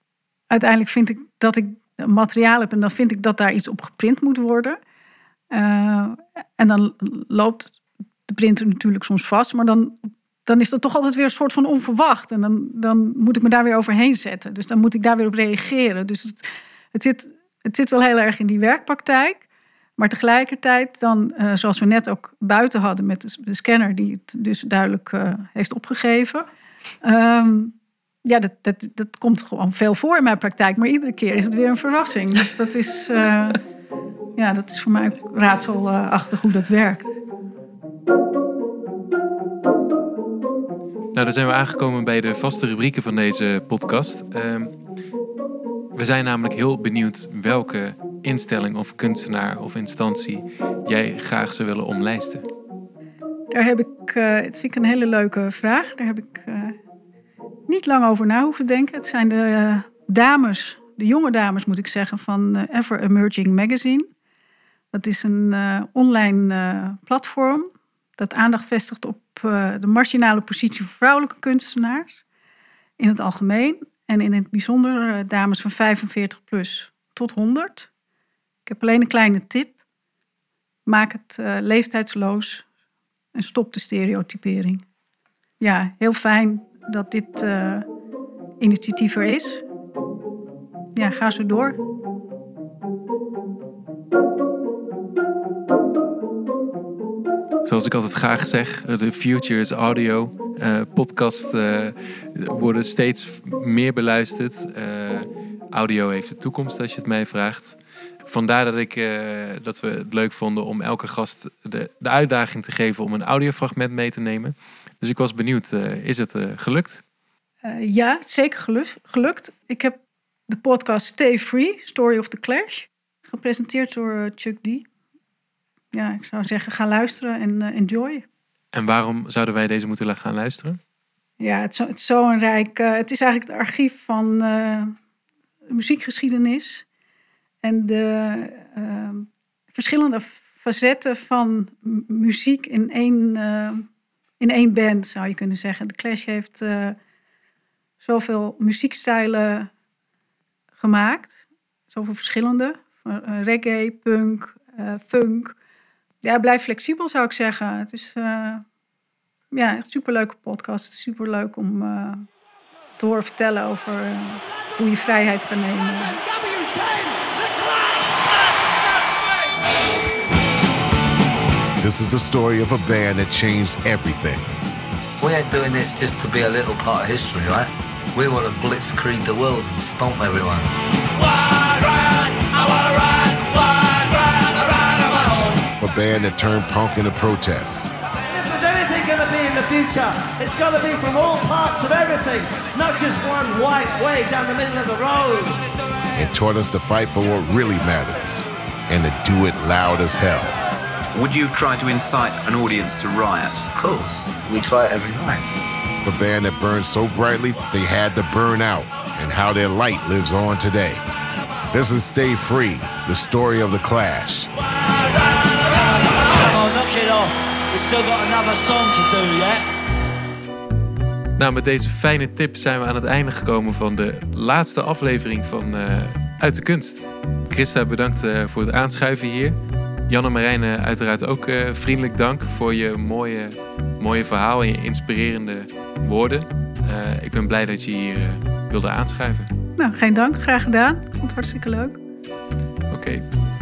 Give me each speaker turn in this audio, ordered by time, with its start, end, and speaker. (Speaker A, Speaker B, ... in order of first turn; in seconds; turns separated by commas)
Speaker A: 0.5-4.8, Speaker A: 5.5-19.4, Speaker A: 20.0-26.4, Speaker A: 27.0-33.6, Speaker A: 34.4-37.2, Speaker B: 41.1-44.7, Speaker B: 45.9-52.5, Speaker A: 53.5-56.8, Speaker A: 57.7-64.1, Speaker A: 64.9-72.2, Speaker A: 73.0-77.9, Speaker A: 78.7-79.8, Speaker A: 80.8-82.7, Speaker A: 83.3-84.8, Speaker A: 85.6-87.8, Speaker A: 88.6-89.7, Speaker A: 90.9-91.8, Speaker B: 97.6-117.0, Speaker A: 117.6-124.9, Speaker A: 125.9-128.2, Speaker B: 128.7-130.8, Speaker A: 131.4-134.9, Speaker A: 135.7-136.8, Speaker A: 137.6-143.8, Speaker A: 144.4-147.0, Speaker A: 148.0-149.7, Speaker A: 150.8-155.6, Speaker A: 156.2-158.6, Speaker A: 159.5-162.3, Speaker A: 163.0-166.2, Speaker C: 166.9-168.2, Speaker D: 171.8-174.5, Speaker E: 175.2-180.7, Speaker C: 181.1-185.7, Speaker D: 185.8-187.9, Speaker C: 188.3-195.6, Speaker D: 196.1-200.5, Speaker F: 201.1-203.6, Speaker E: 203.6-205.4, Speaker D: 206.0-211.0, Speaker D: 211.7-214.5, Speaker C: 214.6-219.6, Speaker B: 221.4-229.6, Speaker B: 230.1-239.5, Speaker A: 239.8-242.0, Speaker B: 242.9-243.3